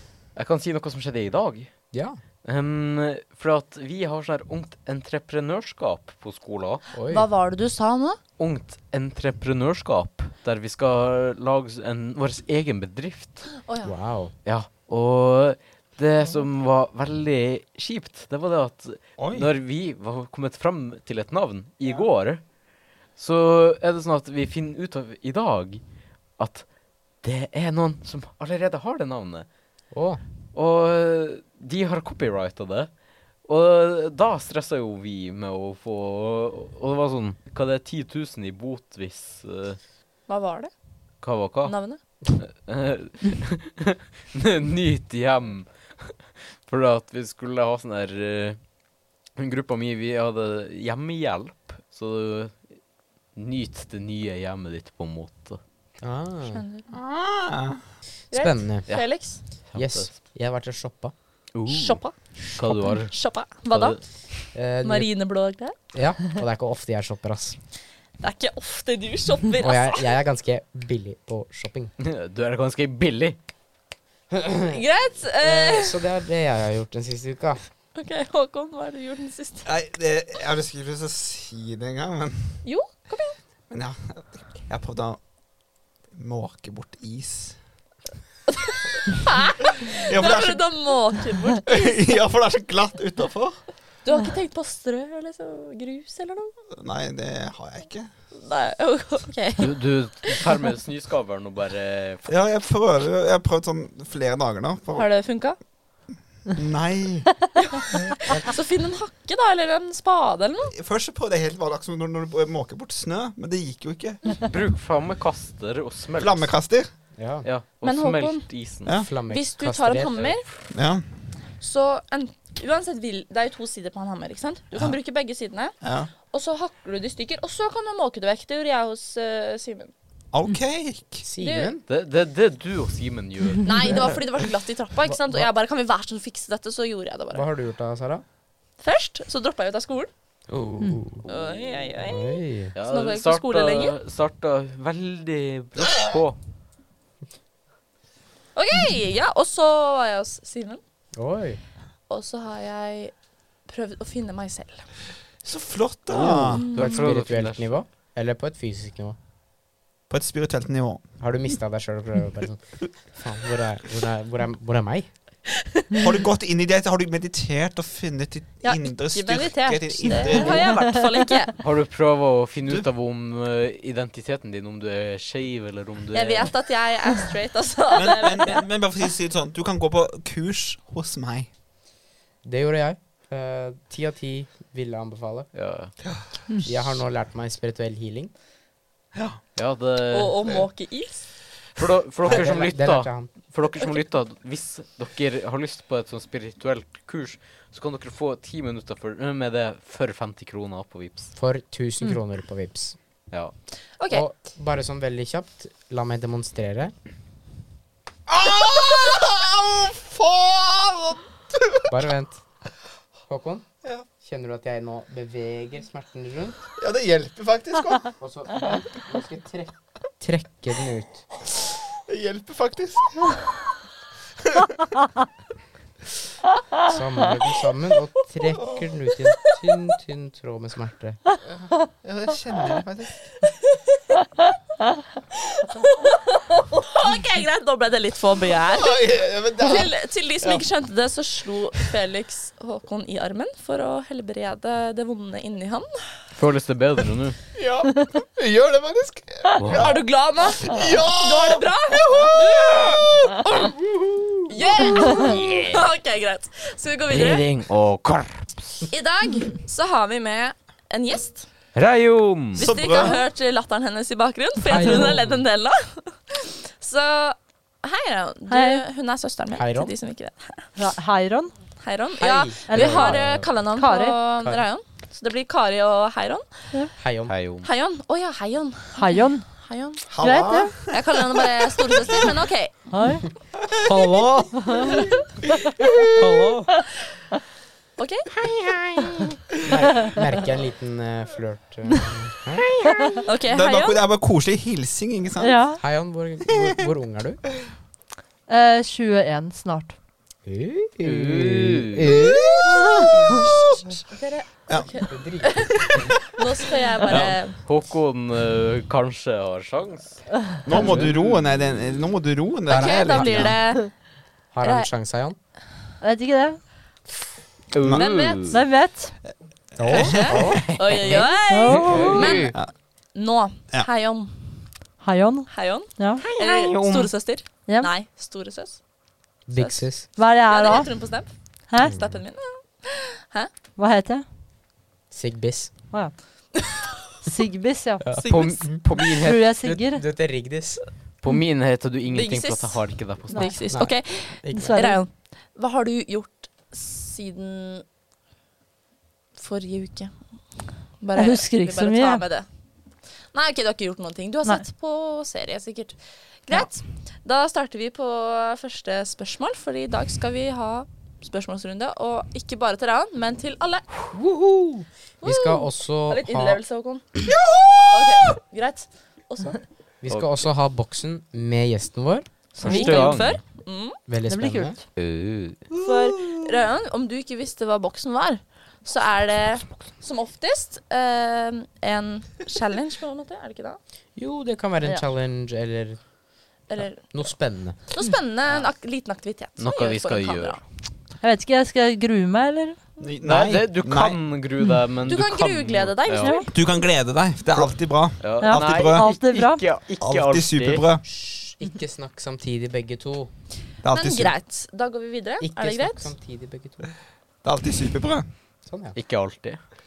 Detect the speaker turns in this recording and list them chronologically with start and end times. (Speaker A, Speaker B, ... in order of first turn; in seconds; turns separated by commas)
Speaker A: 0.3-6.8, Speaker B: 1.9-2.2, Speaker B: 6.9-7.3, Speaker C: 7.1-8.2, Speaker A: 8.4-13.5, Speaker C: 13.6-13.9, Speaker B: 13.8-14.3, Speaker A: 14.4-22.4, Speaker D: 19.2-19.5, Speaker A: 23.1-25.8, Speaker A: 26.4-26.7, Speaker A: 27.2-29.5, Speaker B: 29.9-30.2, Speaker A: 30.5-32.9, Speaker A: 33.4-39.8, Speaker C: 40.3-40.7, Speaker A: 41.2-46.1, Speaker C: 41.6-42.0, Speaker A: 46.6-48.6, Speaker A: 49.4-52.8, Speaker A: 53.4-55.6, Speaker B: 56.0-56.6, Speaker C: 56.5-56.9, Speaker D: 56.9-57.8, Speaker C: 58.3-59.4, Speaker B: 58.3-58.9, Speaker A: 59.7-60.1, Speaker B: 59.8-61.1, Speaker A: 61.5-63.1, Speaker C: 61.7-62.2, Speaker B: 62.5-63.0, Speaker C: 63.1-64.0, Speaker A: 63.7-64.0, Speaker B: 64.5-65.1, Speaker C: 64.8-65.8, Speaker B: 65.9-67.6, Speaker C: 68.2-70.1, Speaker B: 69.6-71.9, Speaker A: 72.0-73.4, Speaker B: 74.3-74.8, Speaker C: 74.7-76.1, Speaker B: 75.4-77.6, Speaker C: 78.0-79.7, Speaker D: 79.7-82.6, Speaker C: 82.6-83.4, Speaker D: 83.7-85.2, Speaker D: 86.1-87.6, Speaker C: 88.5-91.8, Speaker D: 90.1-90.8, Speaker D: 91.7-93.6, Speaker C: 94.0-96.5, Speaker D: 96.7-98.1, Speaker C: 98.3-100.4, Speaker A: 99.6-102.3, Speaker D: 102.3-105.1, Speaker C: 105.0-105.6, Speaker D: 106.5-107.3, Speaker C: 107.6-110.7, Speaker D: 110.7-114.4, Speaker A: 114.5-116.5, Speaker D: 116.2-116.9, Speaker B: 117.2-117.5, Speaker A: 117.4-118.9, Speaker C: 117.8-118.5, Speaker D: 118.8-119.1, Speaker B: 118.9-120.4, Speaker C: 119.3-120.5, Speaker D: 120.7-121.0, Speaker C: 121.6-129.9, Speaker D: 125.8-126.1, Speaker D: 130.3-131.3, Speaker B: 131.2-131.8, Speaker C: 131.4-131.7, Speaker A: 131.9-133.8, Speaker C: 133.6-137.4, Speaker B: 133.9-134.2, Speaker B: 135.1-135.5, Speaker B: 137.3-138.2, Speaker C: 138.8-140.1, Speaker B: 140.5-141.3, Speaker C: 141.3-144.0, Speaker B: 141.9-142.8, Speaker A: 142.8-146.4, Speaker C: 148.6-150.8, Speaker B: 151.2-151.6, Speaker C: 152.1-153.1, Speaker C: 153.7-154.9, Speaker D: 155.4-156.8, Speaker B: 156.1-159.2, Speaker C: 156.6-157.1, Speaker A: 156.7-157.8, Speaker D: 160.1-161.1, Speaker B: 161.2-165.1, Speaker D: 166.0-170.8, Speaker C: 168.6-171.6, Speaker E: 170.2-170.9, Speaker A: 171.6-176.5, Speaker C: 176.1-178.7, Speaker D: 177.9-181.5, Speaker B: 182.4-185.5, Speaker A: 185.5-185.9, Speaker B: 186.6-188.3, Speaker D: 189.1-189.4, Speaker A: 189.6-190.5, Speaker C: 190.1-191.2, Speaker A: 191.8-201.3, Speaker B: 192.2-193.3, Speaker B: 201.3-203.0, Speaker A: 203.3-203.6, Speaker C: 204.0-204.2, Speaker B: 204.1-206.9, Speaker D: 208.3-211.9, Speaker B: 211.9-212.4, Speaker B: 213.3-216.7, Speaker D: 216.8-218.1, Speaker B: 218.2-221.2, Speaker D: 222.1-223.4, Speaker B: 226.8-231.2, Speaker D: 228.5-228.9, Speaker D: 232.0-233.2, Speaker C: 235.6-238.9, Speaker D: 238.7-240.6, Speaker C: 239.6-245.9, Speaker A: 246.3-247.4, Speaker D: 247.5-253.7, Speaker A: 249.6-249.9, Speaker C: 249.7-253.4, Speaker C: 254.5-257.5, Speaker A: 255.1-255.8, Speaker A: 257.1-258.9, Speaker C: 258.9-261.5, Speaker A: 261.8-262.7, Speaker D: 262.6-263.2, Speaker C: 262.6-270.7, Speaker B: 264.7-265.4, Speaker E: 264.7-265.1, Speaker E: 268.5-268.8, Speaker B: 269.6-269.9, Speaker E: 270.8-271.5, Speaker C: 271.8-276.8, Speaker B: 272.2-273.5, Speaker E: 272.7-274.2, Speaker B: 277.0-277.3, Speaker A: 277.3-277.7, Speaker C: 277.6-280.1, Speaker E: 278.9-279.5, Speaker D: 280.1-281.4, Speaker E: 280.2-280.7, Speaker C: 280.9-282.9, Speaker E: 282.9-283.3, Speaker D: 283.6-285.1, Speaker B: 283.8-284.5, Speaker D: 285.7-286.2, Speaker B: 286.2-286.7, Speaker C: 288.0-288.3, Speaker D: 288.4-289.1, Speaker B: 289.6-292.7, Speaker C: 293.2-294.0, Speaker D: 293.5-295.7, Speaker E: 295.4-295.8, Speaker B: 295.8-297.4, Speaker E: 298.5-300.0, Speaker B: 300.4-302.8, Speaker A: 301.0-302.2, Speaker D: 302.4-303.9, Speaker C: 304.1-307.6, Speaker D: 304.7-304.9, Speaker B: 305.1-306.1, Speaker D: 307.1-307.4, Speaker A: 307.2-311.9, Speaker D: 310.6-313.6, Speaker B: 310.7-311.1, Speaker B: 312.7-313.6, Speaker C: 312.7-314.0, Speaker B: 314.5-315.4, Speaker C: 314.6-314.9, Speaker E: 316.0-316.6, Speaker A: 317.7-318.6, Speaker D: 317.8-318.1, Speaker C: 317.9-318.6, Speaker E: 318.5-319.2, Speaker B: 319.8-320.7, Speaker C: 319.9-324.7, Speaker D: 319.9-320.4, Speaker A: 320.5-321.2, Speaker E: 321.1-322.4, Speaker A: 321.7-322.5, Speaker B: 321.9-322.6, Speaker E: 325.0-326.3, Speaker C: 325.5-328.8, Speaker D: 326.2-327.1, Speaker B: 329.5-330.1, Speaker C: 329.5-333.5, Speaker E: 330.2-331.0, Speaker B: 331.8-332.2, Speaker E: 333.8-334.2, Speaker B: 335.1-335.7, Speaker E: 337.2-338.1, Speaker C: 338.2-339.0, Speaker A: 338.2-339.5, Speaker E: 339.2-340.0, Speaker B: 339.6-340.8, Speaker A: 341.2-343.5, Speaker C: 342.1-347.8, Speaker E: 343.3-343.7, Speaker B: 343.7-344.8, Speaker E: 344.5-345.0, Speaker C: 349.4-350.2, Speaker C: 351.0-352.5, Speaker E: 351.1-352.3, Speaker C: 353.3-364.1, Speaker B: 364.1-366.6, Speaker C: 365.2-367.2, Speaker D: 367.3-368.4, Speaker C: 367.9-369.6, Speaker B: 369.4-373.0, Speaker A: 372.6-373.4, Speaker C: 372.6-374.0, Speaker E: 372.6-373.1, Speaker B: 374.1-374.8, Speaker E: 374.3-374.8, Speaker A: 375.0-375.6, Speaker D: 375.7-376.5, Speaker C: 375.8-383.8, Speaker B: 384.2-386.0, Speaker C: 386.7-387.4, Speaker B: 386.9-387.8, Speaker C: 387.9-390.6, Speaker A: 389.6-390.6, Speaker E: 391.2-392.8, Speaker D: 393.0-394.2, Speaker A: 393.2-396.4, Speaker C: 395.0-396.5, Speaker E: 396.2-396.5, Speaker D: 396.5-399.1, Speaker A: 398.2-400.9, Speaker E: 398.4-399.7, Speaker D: 400.0-401.1, Speaker B: 401.0-403.3, Speaker D: 403.8-404.4, Speaker C: 403.9-406.1, Speaker B: 405.4-406.9, Speaker D: 407.4-408.3, Speaker B: 408.7-409.0, Speaker A: 408.9-409.6